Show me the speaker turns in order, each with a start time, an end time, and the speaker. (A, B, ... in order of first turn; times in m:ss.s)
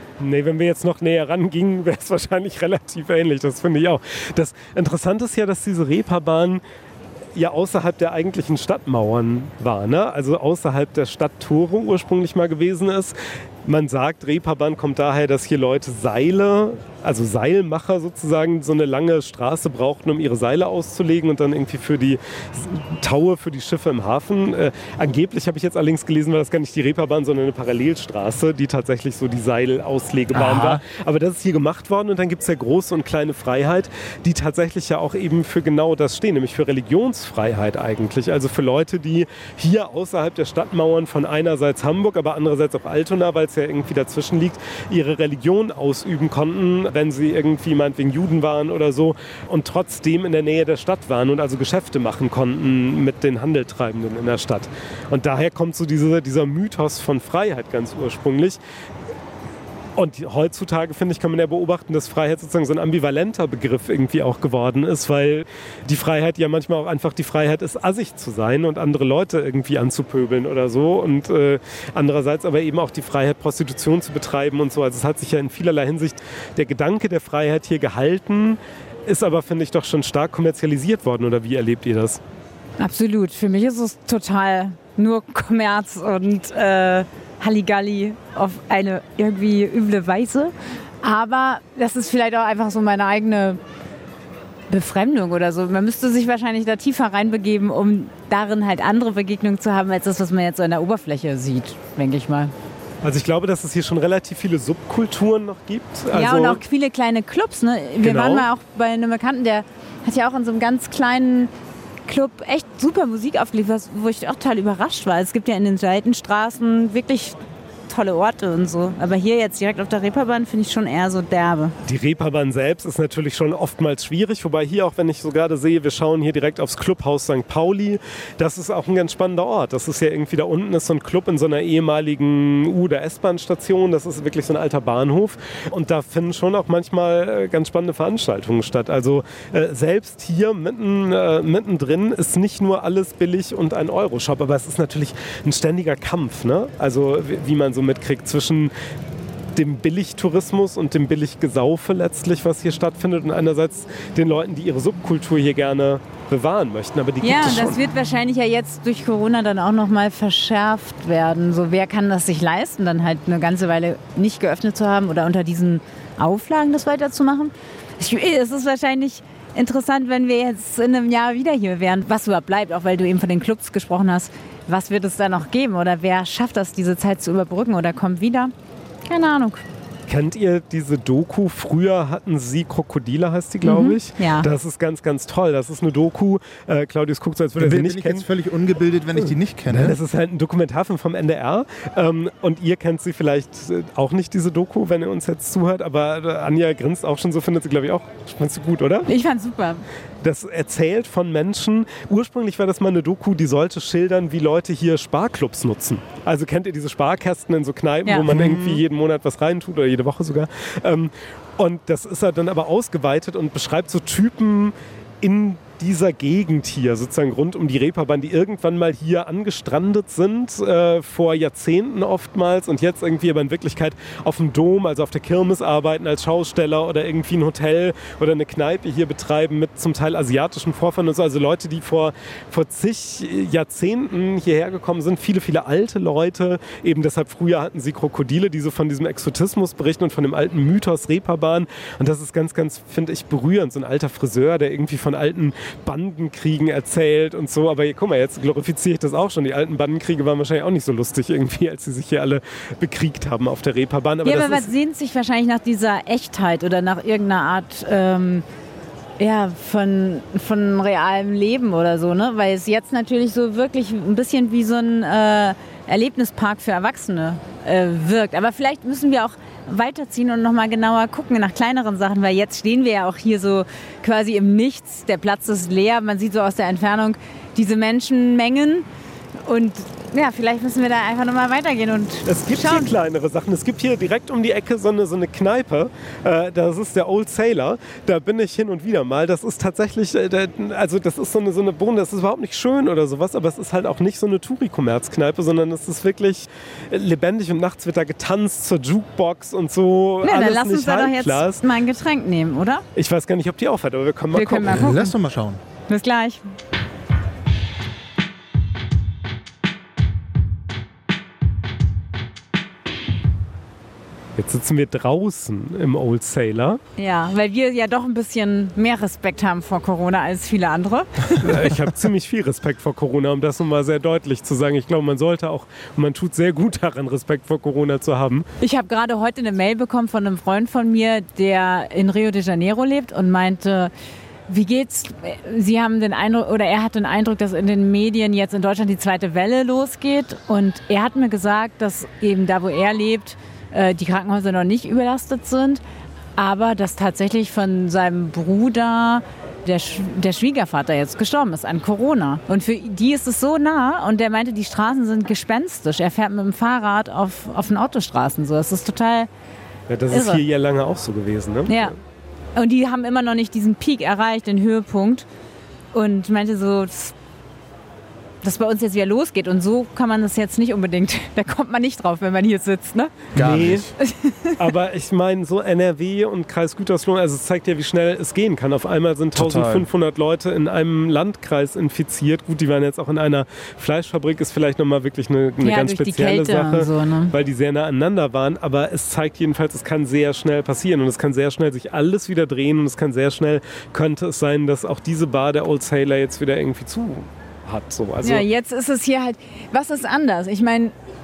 0:00.2-0:06.6 A
0:07.3-0:58.6 A
0:30.3-0:30.8 B
1:00.0-1:22.2 A
1:22.8-1:33.6 C
1:34.7-1:42.5 C
1:43.0-1:46.6 A
1:46.1-1:51.5 C
1:48.0-1:48.4 A
1:52.0-2:01.7 C
2:01.8-2:28.7 A
2:29.5-2:37.8 A
2:37.2-2:58.5 C
2:59.1-2:59.6 C
3:00.1-3:08.3 A
3:03.6-3:04.5 C
3:07.6-3:10.0 B
3:09.7-3:19.1 A
3:19.1-3:19.8 C
3:20.2-4:14.7 A
3:28.0-3:28.8 C
4:14.2-4:18.4 C
4:19.2-4:38.8 C
4:39.4-4:42.9 C
4:42.2-5:01.6 A
5:00.2-5:02.8 C
5:02.9-5:05.0 A
5:04.3-5:05.1 C
5:04.6-5:05.6 B
5:05.9-5:06.5 C
5:14.4-5:16.8 A
5:17.0-5:21.6 C
5:21.4-5:28.4 A
5:28.6-5:33.9 C
5:34.5-5:45.8 C
5:46.4-5:59.3 C
5:59.9-6:01.9 A
6:00.1-6:00.4 C
6:01.7-6:01.9 C
6:02.6-6:05.3 C
6:05.9-6:07.1 C
6:08.4-6:13.1 C
6:13.3-6:13.9 B
6:13.4-6:13.9 A
6:14.0-6:14.6 C
6:14.6-6:38.4 A
6:19.3-6:19.9 B
6:25.6-6:27.3 C
6:38.2-6:40.9 C